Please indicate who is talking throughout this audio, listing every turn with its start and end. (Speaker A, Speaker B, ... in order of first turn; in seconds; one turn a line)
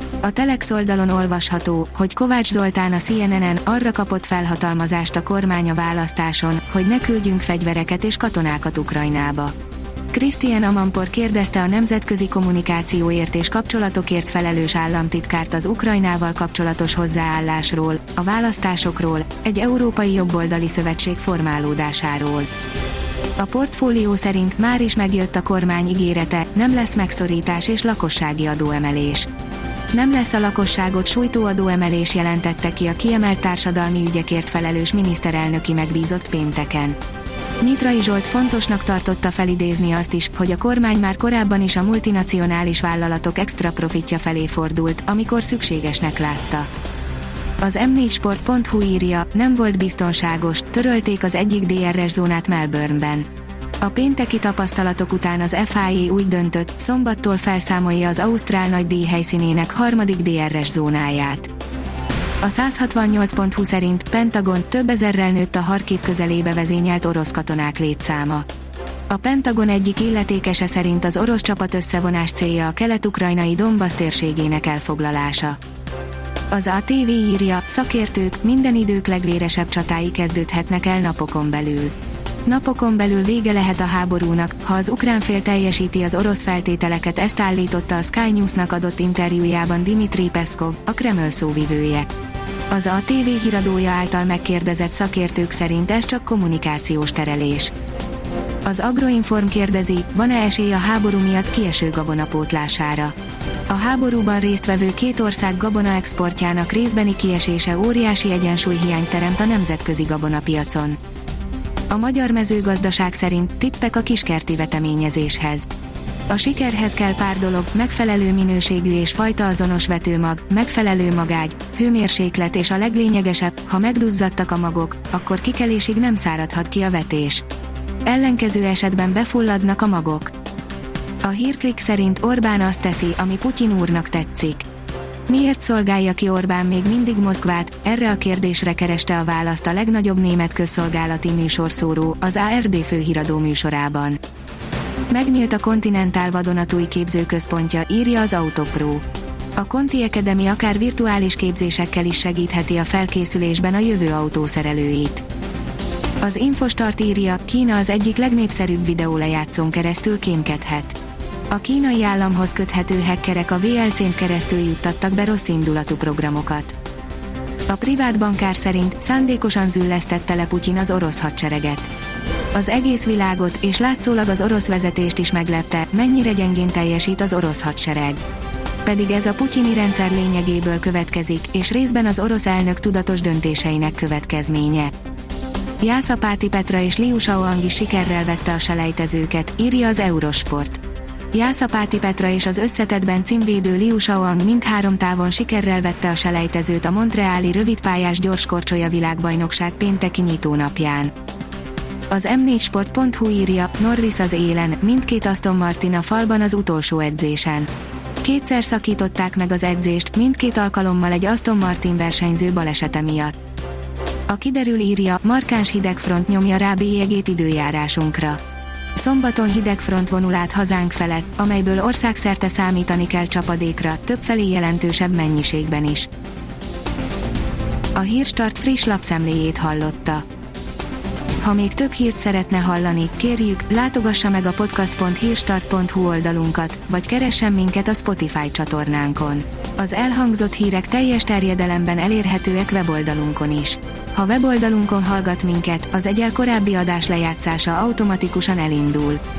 Speaker A: 0.2-9.5
Speaker A: 10.1-22.5
Speaker A: 23.4-29.3
Speaker A: 29.9-37.0
Speaker A: 37.6-46.7
Speaker A: 47.6-53.3
Speaker A: 53.8-61.5
Speaker A: 62.4-68.5
Speaker A: 69.1-75.6
Speaker A: 76.5-92.1
Speaker A: 92.7-97.7
Speaker A: 98.6-103.1
Speaker A: 103.7-111.0
Speaker A: 111.9-115.7
Speaker A: 116.3-127.4
Speaker A: 128.0-130.3
Speaker A: 131.2-134.7
Speaker A: 135.3-144.2
Speaker A: 145.1-149.0
Speaker A: 149.6-155.2
Speaker A: 156.2-161.0
Speaker A: 161.5-166.7
Speaker A: 167.7-171.9
Speaker A: 172.5-178.2
Speaker A: 178.8-184.9
Speaker A: 185.8-190.8
Speaker A: 191.3-201.1
Speaker A: 202.1-207.7
Speaker A: 208.2-213.3
Speaker A: 214.3-218.4
Speaker A: 218.9-226.1
Speaker A: 227.9-230.2
Speaker A: 231.4-249.2